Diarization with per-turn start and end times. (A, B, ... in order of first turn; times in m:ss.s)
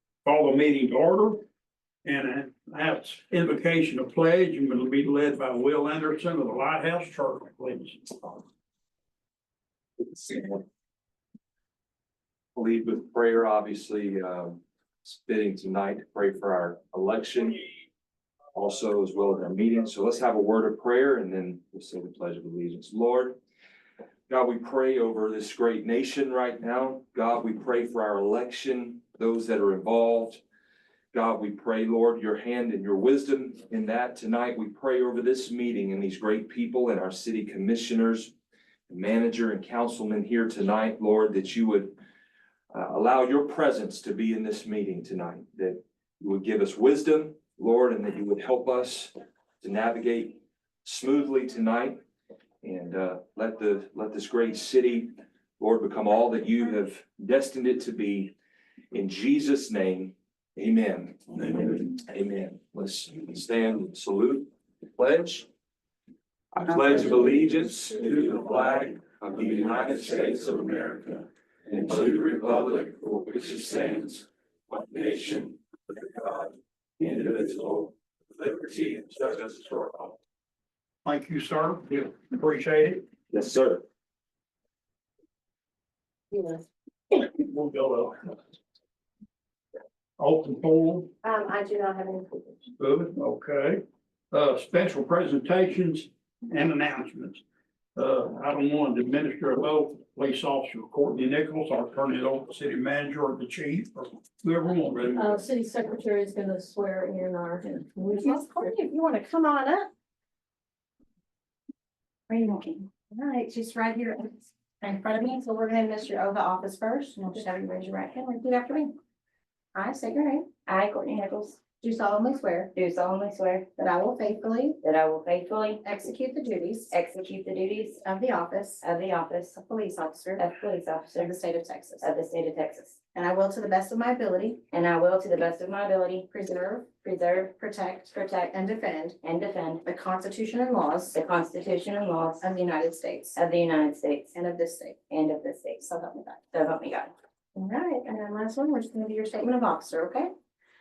0:00.2-0:01.4 A
0:02.0-0:08.4 A
0:10.0-0:10.6 B
0:12.6-0:17.6 B
0:18.6-0:23.4 B
0:24.3-0:30.4 B
0:31.1-0:38.3 B
0:38.9-0:42.0 B
0:42.7-0:52.0 B
0:52.6-0:58.3 B
0:58.9-1:05.5 B
1:06.6-1:11.2 B
1:11.7-1:16.5 B
1:17.0-1:17.9 B
1:18.4-1:20.1 B
1:21.0-1:23.0 A
1:23.3-1:23.8 B
1:27.2-1:28.4 A
1:30.2-1:31.1 A
1:31.2-1:32.3 C
1:32.8-1:37.4 A
1:38.0-1:45.2 A
1:45.2-1:48.8 D
1:48.1-1:49.9 C
1:52.3-1:58.9 C
1:59.8-2:00.6 C
2:00.7-2:01.6 E
2:01.8-2:02.7 C
2:02.8-2:03.7 E
2:03.8-2:04.8 C
2:04.8-2:05.8 E
2:05.8-2:06.9 C
2:06.9-2:08.0 E
2:08.0-2:08.8 C
2:08.8-2:09.5 E
2:09.5-2:10.5 C
2:10.4-2:11.3 E
2:11.2-2:12.1 C
2:12.0-2:13.0 E
2:13.1-2:14.6 C
2:14.7-2:16.3 E
2:16.3-2:16.9 C
2:16.9-2:17.5 E
2:17.5-2:19.2 C
2:19.2-2:19.8 E
2:19.8-2:21.2 C
2:21.2-2:22.4 E
2:22.4-2:23.4 C
2:23.4-2:24.3 E
2:24.3-2:25.1 C
2:25.1-2:25.8 E
2:25.8-2:26.5 C
2:26.5-2:27.1 E
2:27.6-2:30.3 C